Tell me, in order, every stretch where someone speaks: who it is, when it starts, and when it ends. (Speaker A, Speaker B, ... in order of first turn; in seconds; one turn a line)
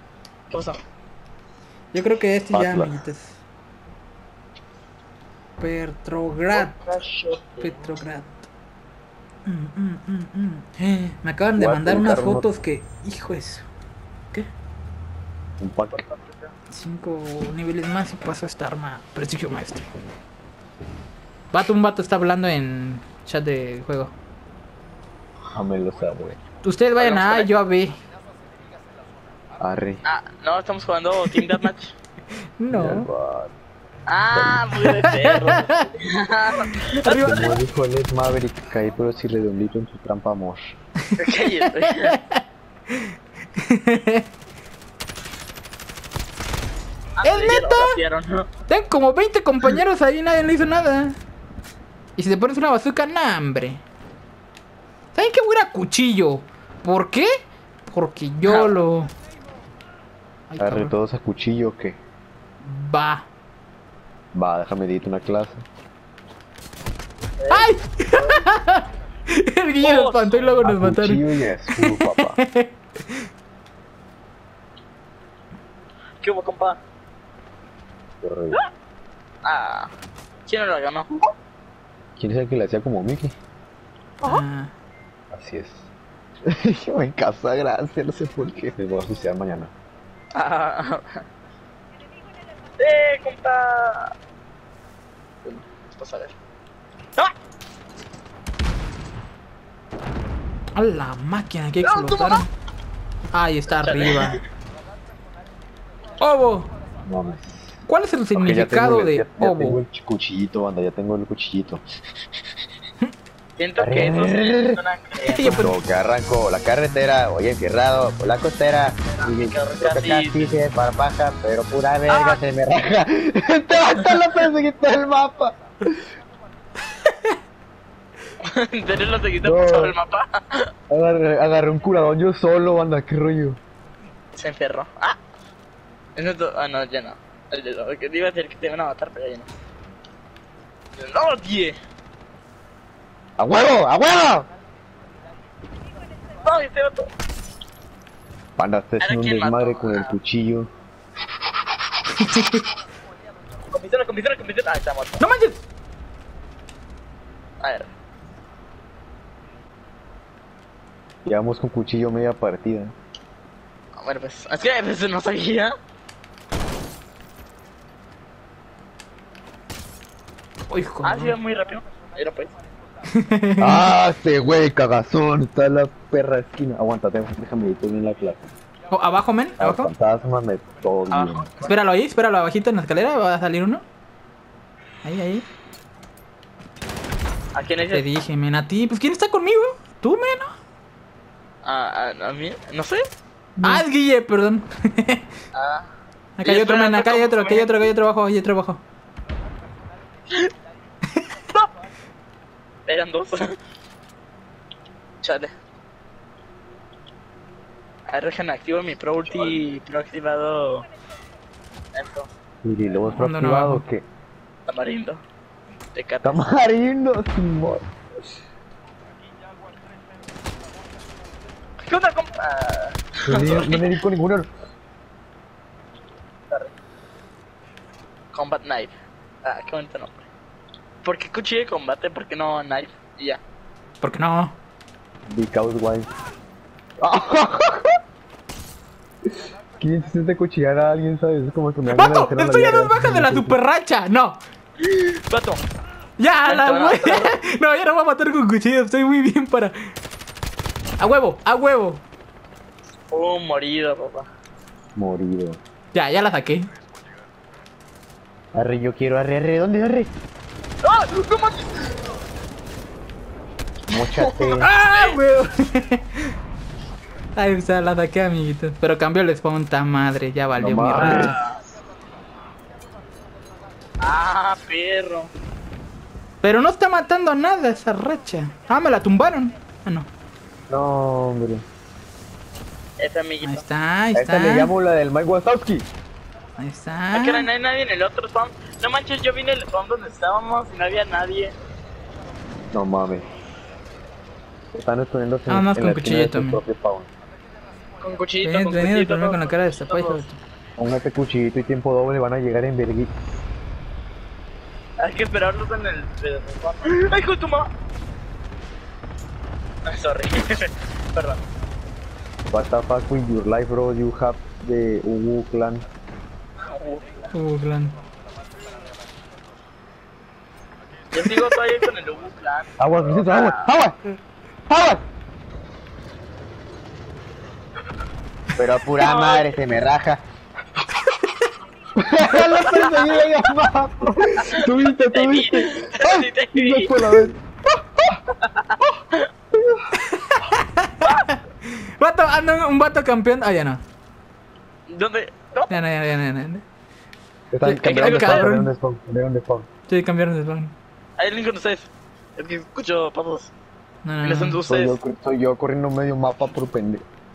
Speaker A: 0.5-0.8
Speaker B: 1.9-3.4
Speaker C: 2.5-3.0
Speaker B: 5.6-6.7
Speaker A: 6.5-7.8
Speaker B: 7.6-8.5
Speaker B: 9.4-13.7
Speaker C: 11.6-12.4
Speaker C: 15.6-16.0
Speaker A: 15.9-16.5
Speaker B: 16.7-19.9
Speaker B: 21.5-24.1
Speaker C: 25.5-26.4
Speaker B: 26.6-27.9
Speaker A: 27.0-27.5
Speaker C: 29.6-30.0
Speaker A: 30.1-31.9
Speaker B: 32.6-33.1
Speaker C: 32.7-33.5
Speaker A: 34.1-37.3
Speaker C: 34.3-34.7
Speaker B: 34.9-35.8
Speaker B: 37.0-37.6
Speaker C: 37.2-40.8
Speaker A: 41.2-42.2
Speaker B: 42.1-42.4
Speaker B: 42.9-44.3
Speaker A: 47.2-48.5
Speaker B: 47.2-48.0
Speaker B: 48.7-51.2
Speaker B: 52.2-53.8
Speaker B: 55.1-57.3
Speaker B: 57.9-59.1
Speaker A: 58.5-58.7
Speaker B: 60.5-60.9
Speaker C: 60.6-62.0
Speaker B: 62.6-63.3
Speaker C: 64.3-65.6
Speaker A: 67.4-68.4
Speaker B: 67.5-73.3
Speaker A: 69.8-70.6
Speaker C: 70.6-72.4
Speaker A: 76.2-76.8
Speaker C: 78.2-78.6
Speaker A: 79.4-79.9
Speaker A: 80.5-81.1
Speaker C: 82.2-83.3
Speaker B: 84.2-84.7
Speaker C: 85.3-85.9
Speaker C: 86.5-89.7
Speaker A: 90.3-91.2
Speaker A: 92.8-94.1
Speaker A: 95.4-96.3
Speaker B: 100.8-102.5
Speaker A: 101.8-102.5
Speaker B: 103.3-104.4
Speaker A: 103.7-104.4
Speaker B: 106.2-106.7
Speaker C: 107.1-107.6
Speaker B: 107.9-109.8
Speaker C: 108.3-111.8
Speaker A: 113.6-115.6
Speaker C: 113.8-114.8
Speaker B: 115.2-115.8
Speaker C: 115.4-126.0
Speaker A: 119.1-120.6
Speaker A: 122.1-122.4
Speaker A: 128.4-130.7
Speaker C: 129.4-130.0
Speaker C: 130.9-133.6
Speaker A: 134.4-135.2
Speaker A: 136.2-139.5
Speaker A: 141.0-141.8
Speaker C: 143.4-144.5
Speaker A: 146.4-147.1
Speaker C: 148.6-150.7
Speaker A: 149.0-150.1
Speaker B: 152.2-152.6
Speaker A: 153.7-155.2
Speaker B: 155.2-155.6
Speaker A: 157.6-157.9
Speaker C: 161.2-162.9
Speaker A: 164.0-165.7
Speaker B: 170.7-171.4
Speaker A: 171.0-172.5
Speaker B: 173.1-173.9
Speaker C: 173.6-178.4
Speaker B: 178.9-179.9
Speaker C: 179.6-181.5
Speaker A: 181.1-181.7
Speaker B: 181.6-183.8
Speaker B: 185.0-185.4
Speaker A: 187.5-188.1
Speaker B: 187.9-190.5
Speaker A: 191.6-193.0
Speaker C: 193.6-193.8
Speaker B: 193.6-195.3
Speaker A: 195.5-195.9
Speaker B: 196.4-198.8
Speaker A: 196.4-197.9
Speaker A: 202.9-203.5
Speaker A: 205.2-205.5
Speaker A: 208.1-210.9
Speaker A: 211.9-212.3
Speaker C: 212.6-214.1
Speaker B: 213.1-213.8
Speaker A: 214.7-215.2
Speaker A: 215.9-216.4
Speaker C: 216.2-217.9
Speaker A: 221.8-224.0
Speaker C: 223.2-224.5
Speaker A: 228.3-230.3
Speaker A: 231.0-233.4
Speaker B: 234.0-234.6
Speaker C: 235.3-236.1
Speaker C: 237.0-238.0
Speaker C: 239.8-243.6
Speaker B: 241.9-244.4
Speaker A: 244.8-245.6
Speaker B: 246.2-249.9
Speaker A: 246.5-247.4
Speaker B: 251.0-252.0
Speaker A: 253.1-254.3
Speaker C: 254.9-255.6
Speaker B: 255.9-256.7
Speaker C: 258.5-260.1
Speaker A: 260.8-261.9
Speaker C: 263.9-264.7
Speaker A: 264.2-265.2
Speaker B: 264.6-266.3
Speaker B: 267.4-271.4
Speaker C: 270.6-271.3
Speaker A: 271.0-271.6
Speaker A: 274.0-275.3
Speaker B: 276.4-280.1
Speaker C: 280.7-281.6
Speaker A: 283.0-283.6
Speaker B: 283.4-284.7
Speaker C: 284.1-285.9
Speaker B: 286.6-287.5
Speaker A: 287.1-291.5
Speaker C: 292.7-293.3
Speaker C: 294.7-297.1
Speaker B: 295.5-296.6
Speaker A: 298.0-300.2
Speaker B: 298.4-300.4
Speaker C: 300.8-303.1
Speaker A: 305.0-307.7
Speaker A: 309.9-311.4
Speaker C: 312.5-315.8
Speaker A: 316.7-317.3
Speaker B: 317.3-317.9
Speaker A: 321.1-323.7
Speaker C: 322.8-324.0
Speaker C: 324.7-325.0
Speaker C: 328.6-330.2
Speaker A: 329.0-329.5
Speaker C: 332.0-337.4
Speaker A: 332.4-333.2
Speaker A: 334.4-336.9
Speaker A: 338.4-339.3
Speaker C: 339.6-339.9
Speaker B: 340.0-343.8
Speaker A: 344.9-345.7
Speaker B: 345.7-346.6
Speaker C: 347.5-349.7
Speaker B: 347.6-348.7
Speaker A: 347.9-348.5
Speaker B: 349.9-350.7
Speaker A: 351.2-353.5
Speaker B: 354.1-354.6
Speaker A: 354.2-355.0
Speaker C: 354.7-357.0